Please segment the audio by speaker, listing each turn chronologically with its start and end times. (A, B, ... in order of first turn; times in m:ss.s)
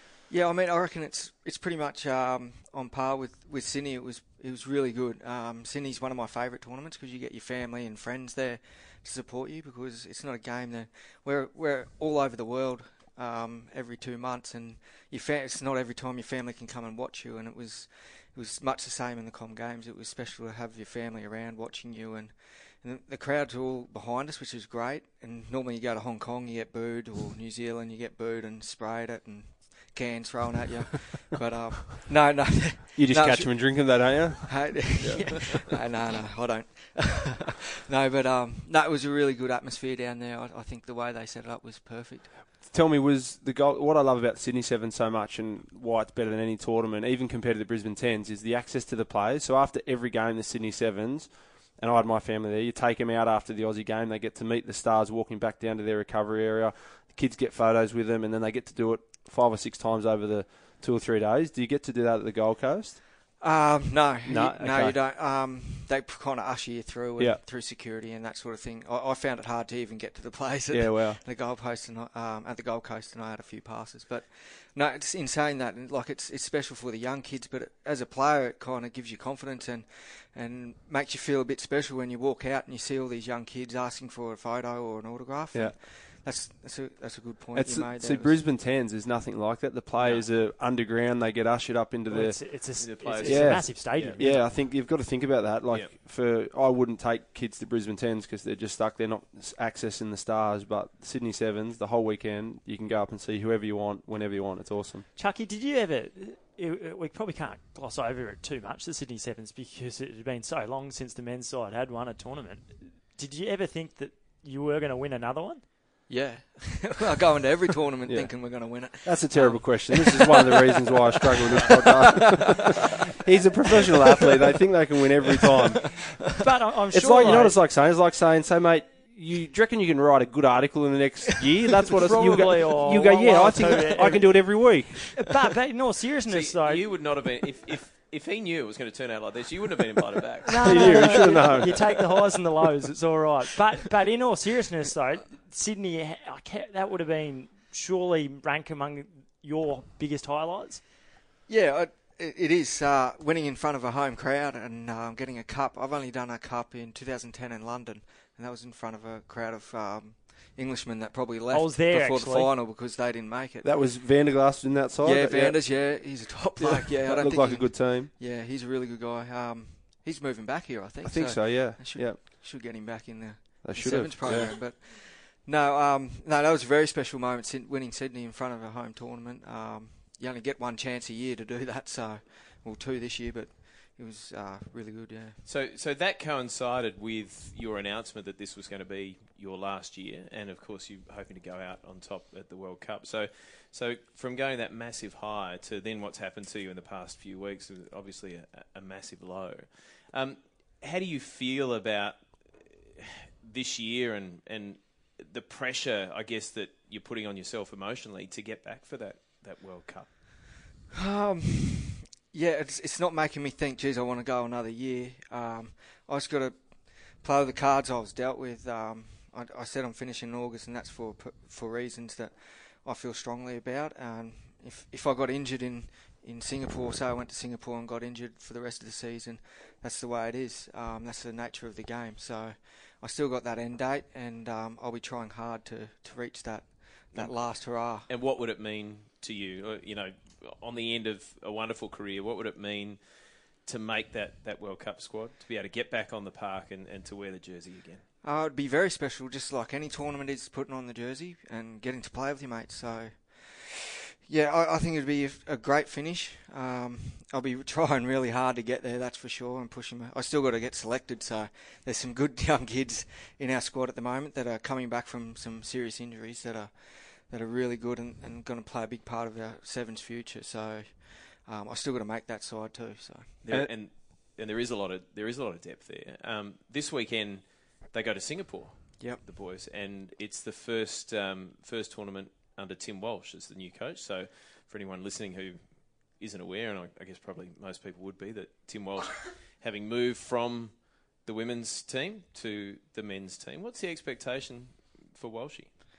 0:00.3-0:42.4 A
0:33.0-0:35.5 B
0:42.6-1:03.0 B
1:03.4-1:28.4 A
1:04.2-1:05.0 B
1:07.2-1:07.4 B
1:10.7-1:11.2 B
1:25.5-1:25.8 B
1:27.5-1:45.1 B
1:30.0-1:30.3 C
1:32.1-1:34.4 D
1:32.8-1:34.6 C
1:45.2-1:55.6 D
1:56.1-2:00.3 A
1:58.0-2:06.2 B
2:01.2-2:02.6 A
2:06.4-2:07.6 D
2:06.9-2:15.2 B
2:12.0-2:16.9 D
2:13.9-2:14.2 A
2:16.3-2:21.7 C
2:20.5-2:30.8 D
2:20.6-2:22.0 B
2:31.5-2:43.7 A
2:41.5-2:42.6 D
2:43.6-2:48.1 B
2:45.0-3:05.4 A
2:51.0-2:52.2 B
2:53.6-2:54.6 B
3:05.5-3:30.4 C
3:31.0-3:58.1 A
3:57.1-4:08.0 C
4:08.2-4:33.4 A
4:33.4-4:55.7 C